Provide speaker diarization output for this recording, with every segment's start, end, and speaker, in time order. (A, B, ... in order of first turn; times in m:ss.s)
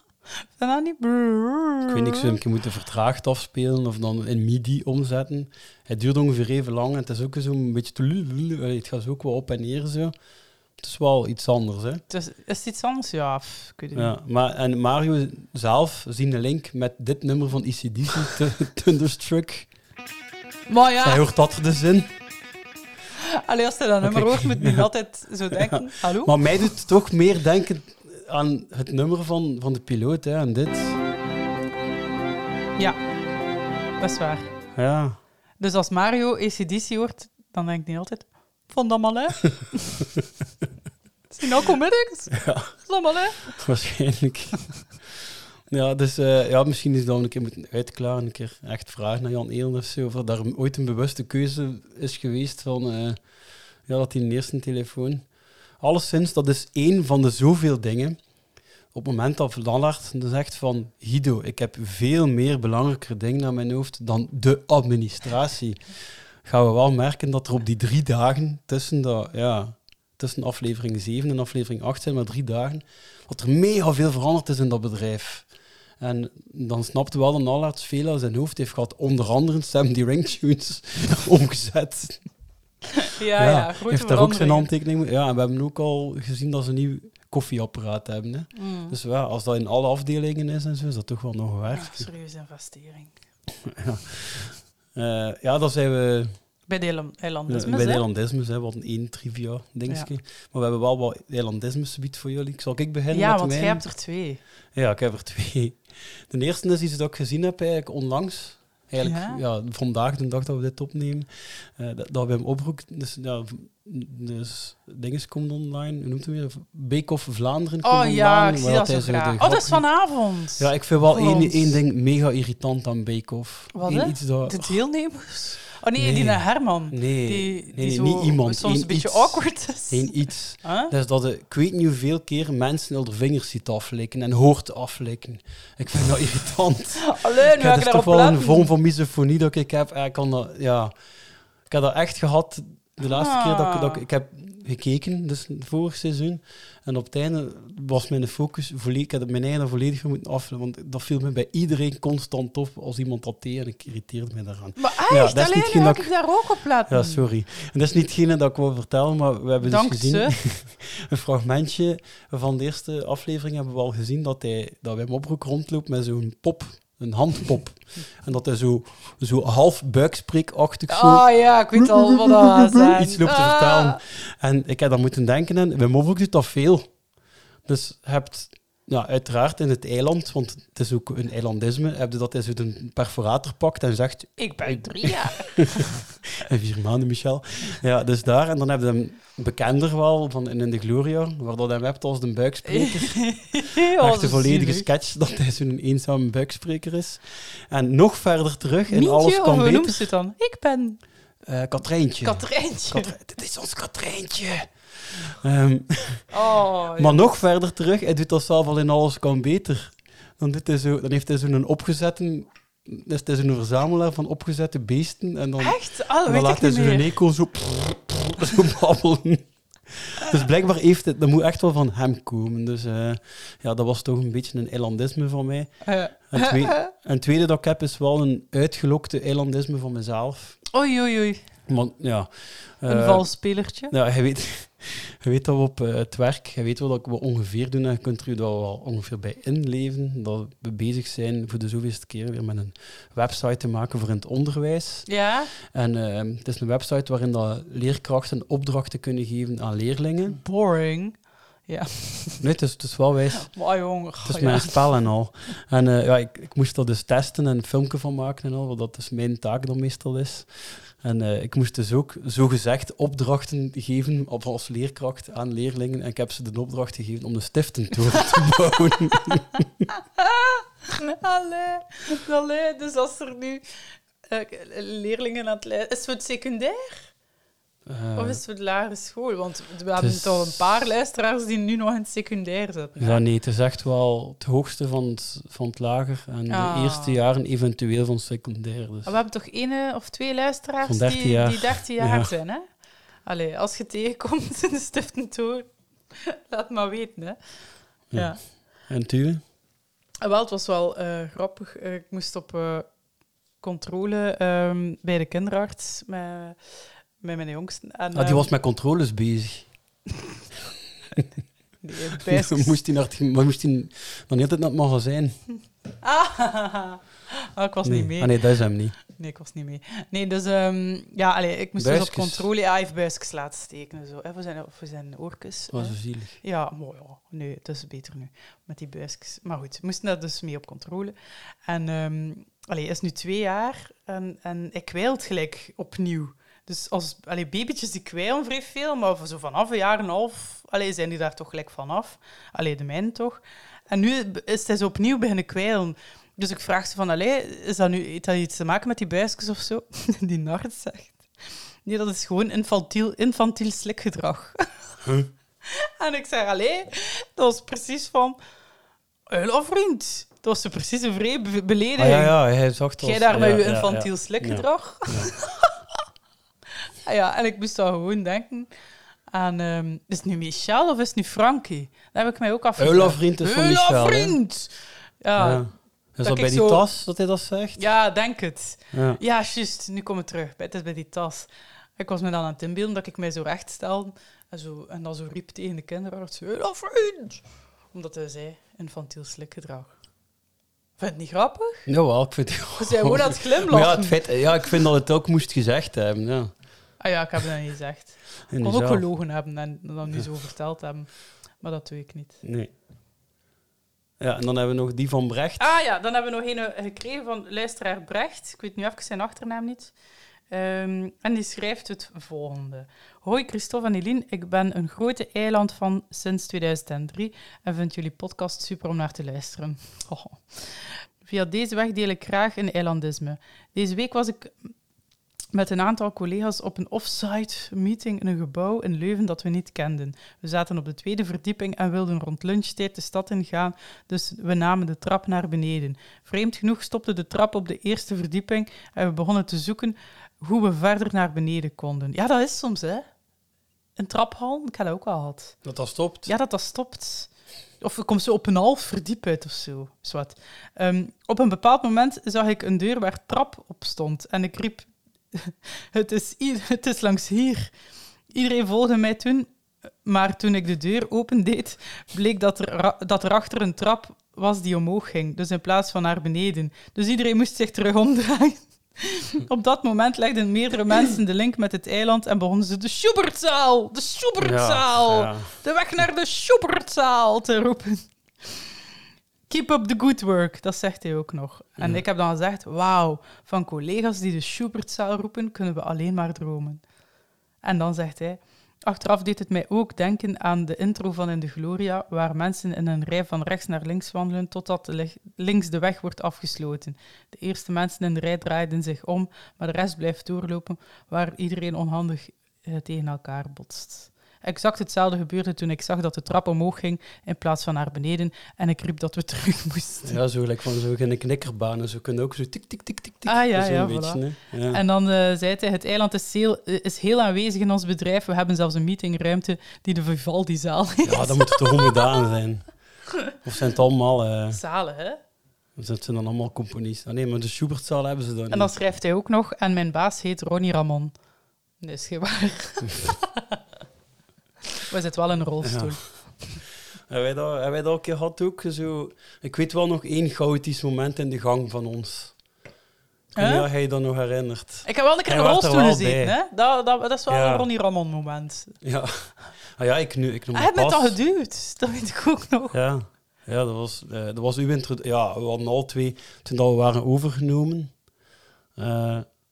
0:00.4-0:02.3 A
0:01.9-0:10.1 B
0:10.8-0:12.0 B
0:12.1-0:14.2 A
0:14.0-0:19.7 B
0:20.7-0:21.2 A
0:21.0-0:22.1 B
0:23.4-0:26.4 A
0:24.0-0:24.9 B
0:25.5-0:31.0 B
0:34.0-0:34.5 A
0:34.8-0:35.2 B
0:35.6-0:40.0 A
0:41.3-0:43.4 A
0:42.3-0:42.7 B
0:43.5-0:44.6 B
0:45.7-0:53.2 B
0:53.9-0:55.3 B
0:55.8-0:58.2 B
0:58.9-1:05.8 B
1:06.4-1:15.5 B
1:16.0-1:22.2 B
1:23.0-1:24.7 A
1:23.4-1:32.1 B
1:28.6-1:29.0 A
1:31.7-1:33.1 A
1:33.7-1:36.3 B
1:36.7-1:38.0 A
1:37.5-1:43.8 B
1:43.1-1:44.4 A
1:44.8-1:59.9 B
1:49.0-1:49.4 A
1:57.8-2:01.8 A
2:00.6-2:04.8 B
2:03.7-2:10.1 A
2:06.0-2:20.9 B
2:10.6-2:10.9 A
2:17.0-2:18.7 A
2:21.7-2:36.1 B
2:23.0-2:24.0 A
2:34.8-2:37.2 A
2:36.9-2:56.9 B
2:39.6-2:40.4 A
2:50.9-2:54.0 A
2:57.7-3:05.8 B
3:04.4-3:05.8 A
3:06.4-3:13.4 B
3:12.7-3:14.9 A
3:14.0-3:20.0 B
3:18.9-3:21.0 A
3:21.4-3:24.7 B
3:22.2-3:23.1 A
3:25.3-3:26.3 B
3:26.3-3:27.3 A
3:27.0-3:50.6 B
3:35.6-3:37.1 A
3:45.8-3:46.9 A
3:50.7-3:51.4 A
3:51.7-4:05.1 B
3:52.9-3:53.9 A
4:05.1-4:05.5 A
4:05.6-4:10.4 B
4:10.3-4:12.4 A
4:12.4-4:13.5 B
4:13.4-4:15.1 A
4:14.2-4:29.8 B
4:30.2-4:33.6 A
4:34.3-4:37.1 A
4:37.9-4:38.4 B
4:38.2-4:43.2 A
4:40.0-4:40.6 B
4:43.0-4:49.2 B
4:46.5-4:47.2 A
4:49.0-4:52.7 A
4:50.8-4:52.3 B
4:53.2-4:55.7 A
4:56.2-4:57.4 A
4:58.1-4:58.4 A
4:58.9-4:59.4 B
5:00.2-5:02.9 A
5:03.6-5:06.6 A
5:07.2-5:08.5 A
5:08.1-5:09.7 B
5:11.8-5:12.8 A
5:12.2-5:15.4 B
5:16.0-5:17.0 A
5:17.6-5:31.2 A
5:17.8-5:19.0 B
5:21.8-5:22.5 B
5:25.7-5:26.4 B
5:31.7-5:51.3 A
5:51.8-5:54.7 A
5:55.0-5:55.3 B
5:55.7-5:58.4 A
5:59.3-6:02.3 A
6:02.0-6:05.3 B
6:03.0-6:05.7 A
6:07.0-6:08.7 A
6:09.3-6:15.6 A
6:12.8-6:14.4 B
6:15.4-6:17.8 B
6:16.2-6:16.8 A
6:17.8-6:29.9 A
6:18.9-6:19.2 B
6:31.0-6:31.9 A
6:31.9-6:36.5 B
6:32.8-6:34.2 A
6:37.0-6:41.1 A
6:38.5-6:39.0 B
6:41.6-6:42.4 A
6:42.4-6:42.7 B
6:44.2-6:45.7 B
6:45.6-6:49.9 A
6:50.5-7:04.7 A
7:05.5-7:23.1 A
7:24.0-7:25.6 A
7:25.6-7:26.3 B
7:26.3-7:27.3 A
7:27.8-7:37.7 A
7:38.3-7:39.5 A
7:40.0-7:58.6 A
7:54.4-7:55.5 B
7:59.5-8:06.8 A
8:07.6-8:30.2 A
8:30.0-8:34.8 B
8:33.3-8:42.1 A
8:41.0-8:42.7 B
8:43.4-8:44.6 B
8:44.5-8:45.2 A
8:45.8-8:48.7 B
8:48.5-8:51.1 A
8:51.8-8:53.4 A
8:54.9-8:56.0 A
8:55.6-8:56.0 B
8:57.1-9:02.4 B
9:03.4-9:06.4 B
9:03.4-9:03.7 A
9:04.8-9:08.8 A
9:07.3-9:07.7 B
9:08.8-9:09.2 B
9:09.8-9:11.2 B
9:10.5-9:12.8 A
9:12.7-9:17.9 B
9:18.8-9:19.3 B